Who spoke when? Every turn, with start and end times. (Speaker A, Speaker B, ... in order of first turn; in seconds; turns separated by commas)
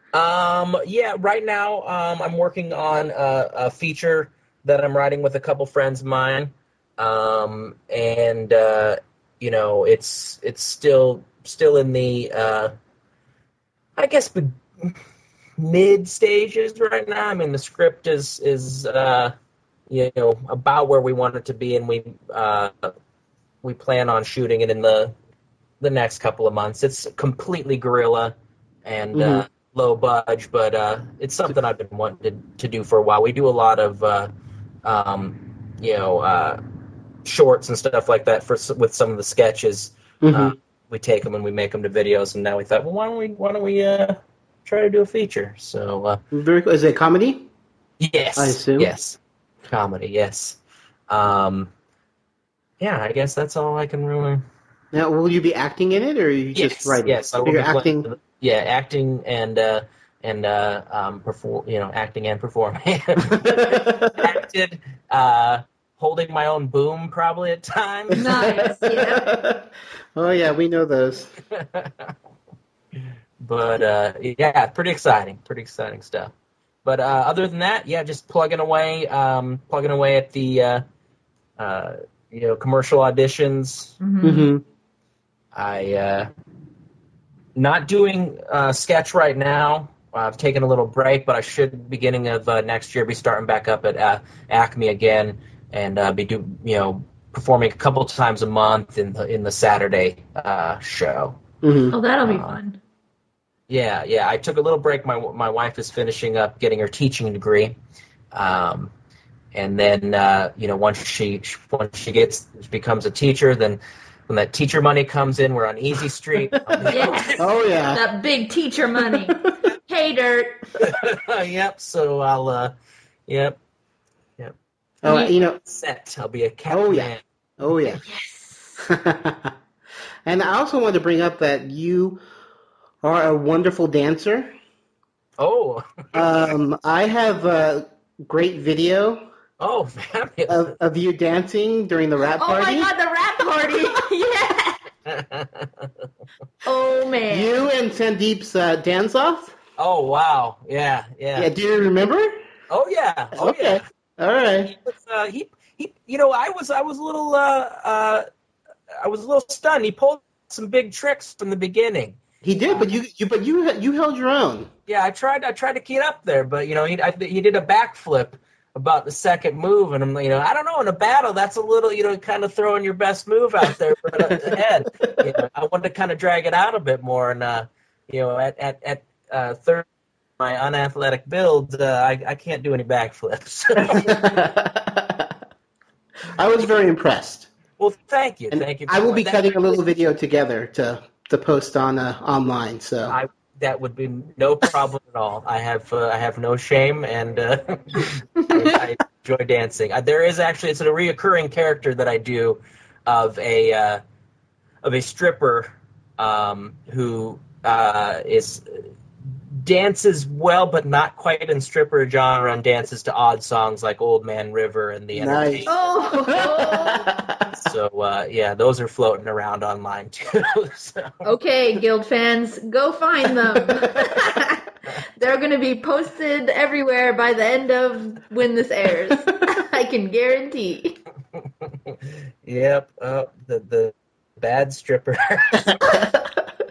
Speaker A: 0.1-12.7, Speaker A: 14.0-15.0, Speaker A: 15.6-19.3, Speaker A: 19.9-22.9, Speaker A: 23.6-25.1, Speaker A: 25.8-28.3, Speaker A: 28.9-34.3, Speaker B: 29.1-29.4, Speaker A: 34.8-36.6, Speaker A: 37.2-46.2, Speaker B: 40.2-40.5, Speaker B: 46.3-47.5, Speaker A: 48.0-49.2, Speaker B: 48.4-48.9, Speaker A: 49.7-50.6, Speaker A: 51.1-51.7, Speaker A: 52.8-54.4, Speaker B: 54.9-58.1, Speaker A: 56.5-68.2, Speaker B: 63.3-64.3, Speaker B: 68.1-71.3, Speaker C: 68.1-69.3, Speaker A: 71.5-72.1, Speaker A: 73.4-76.3, Speaker A: 76.8-80.8, Speaker A: 81.6-84.0, Speaker C: 84.0-84.5, Speaker B: 84.2-84.6, Speaker A: 85.5-86.3, Speaker A: 87.6-101.4, Speaker B: 101.6-102.0, Speaker C: 101.9-102.8, Speaker A: 102.2-102.6, Speaker A: 103.7-107.8, Speaker A: 108.3-108.9, Speaker A: 109.5-117.4, Speaker B: 116.7-118.0, Speaker C: 116.9-119.4, Speaker C: 119.9-120.6, Speaker A: 120.8-122.7, Speaker A: 123.3-123.6, Speaker B: 125.0-125.6, Speaker A: 125.6-127.2, Speaker B: 126.7-128.0, Speaker C: 128.0-128.8, Speaker B: 128.8-129.5, Speaker B: 130.3-132.2, Speaker B: 133.0-134.5, Speaker A: 135.4-136.5, Speaker B: 136.1-139.2, Speaker A: 139.6-140.7, Speaker B: 140.5-142.9, Speaker C: 142.3-144.8, Speaker A: 145.1-145.9, Speaker C: 146.6-147.6, Speaker B: 147.3-149.5, Speaker A: 149.8-151.5, Speaker B: 151.4-152.3, Speaker A: 152.7-153.8, Speaker B: 153.3-154.7, Speaker A: 154.8-158.2, Speaker A: 159.0-162.9, Speaker B: 162.4-164.7, Speaker A: 164.9-179.8, Speaker B: 174.3-174.5, Speaker A: 180.4-184.1, Speaker B: 183.9-185.3, Speaker B: 186.4-187.5, Speaker A: 187.8-189.8, Speaker B: 188.5-193.2, Speaker A: 193.1-204.0, Speaker A: 204.8-208.6, Speaker A: 209.6-215.7, Speaker B: 215.1-215.7, Speaker C: 215.7-217.1, Speaker B: 216.3-217.4, Speaker A: 217.6-221.1, Speaker C: 221.2-224.6, Speaker B: 223.5-223.9, Speaker C: 225.2-231.0, Speaker A: 231.9-235.7, Speaker B: 235.8-236.2